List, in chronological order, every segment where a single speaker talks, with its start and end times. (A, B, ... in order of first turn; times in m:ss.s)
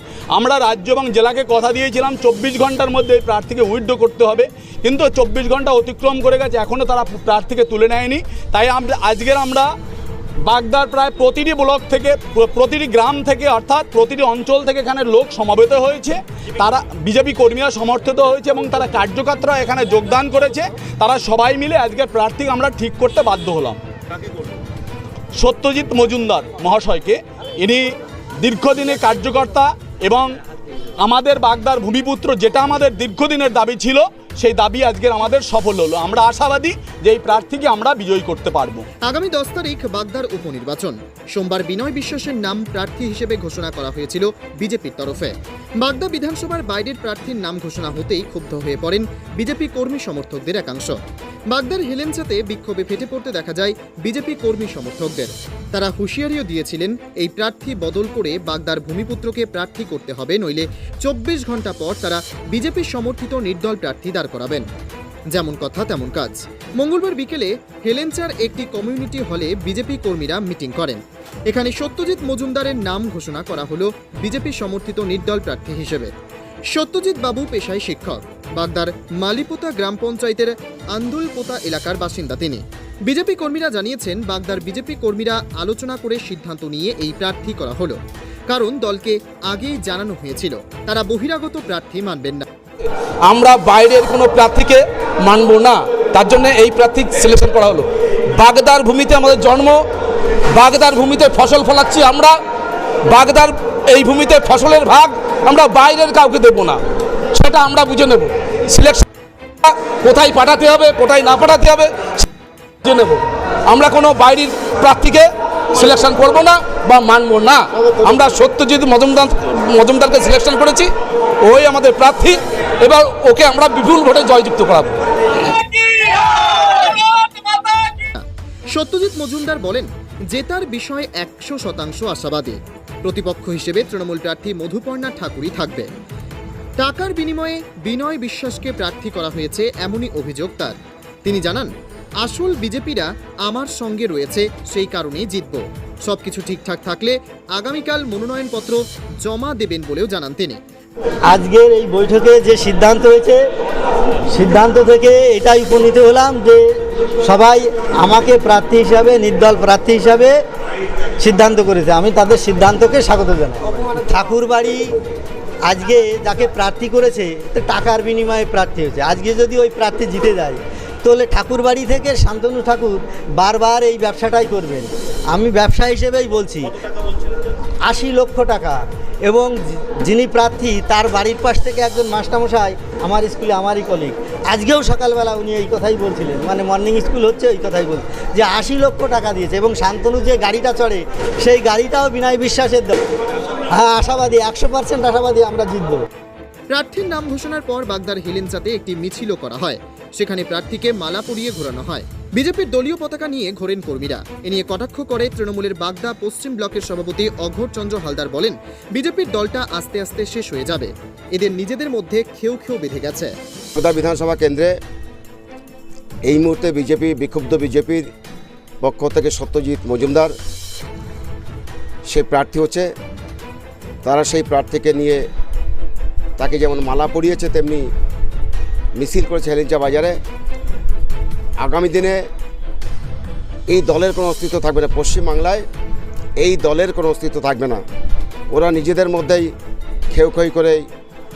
0:00.4-0:09.7 A
0:02.2-0:02.7 B
0:10.4-0:23.8 A
0:25.4-0:27.9 A
0:28.4-0:30.3 A
0:31.0-0:38.8 A
0:39.0-0:51.0 C
0:51.5-1:04.7 C
1:05.3-1:16.1 C
1:16.7-1:32.4 C
1:33.2-1:39.8 B
1:40.5-1:42.4 B
1:43.0-1:46.8 B
1:47.3-1:49.0 B
1:49.6-1:52.2 B
1:52.8-2:00.9 B
2:01.4-2:05.0 B
2:05.7-2:06.2 A
2:08.1-2:15.9 C
2:16.8-2:21.7 C
2:22.2-2:30.6 C
2:31.3-2:33.4 D
2:34.3-2:36.7 D
2:37.2-2:40.4 D
2:41.2-2:44.9 D
2:45.7-2:56.7 D
2:57.9-3:13.0 D
3:13.7-3:16.0 D
3:16.7-3:33.3 C
3:33.8-3:34.7 E
3:36.2-3:38.1 E
3:38.8-3:40.3 E
3:42.1-3:42.9 E
3:44.0-3:45.2 E
3:46.4-3:47.8 E
3:49.0-3:50.2 E
3:51.6-3:52.2 E
3:53.7-3:55.6 E
3:56.4-3:57.8 E
3:58.5-3:59.5 E
4:00.1-4:00.8 E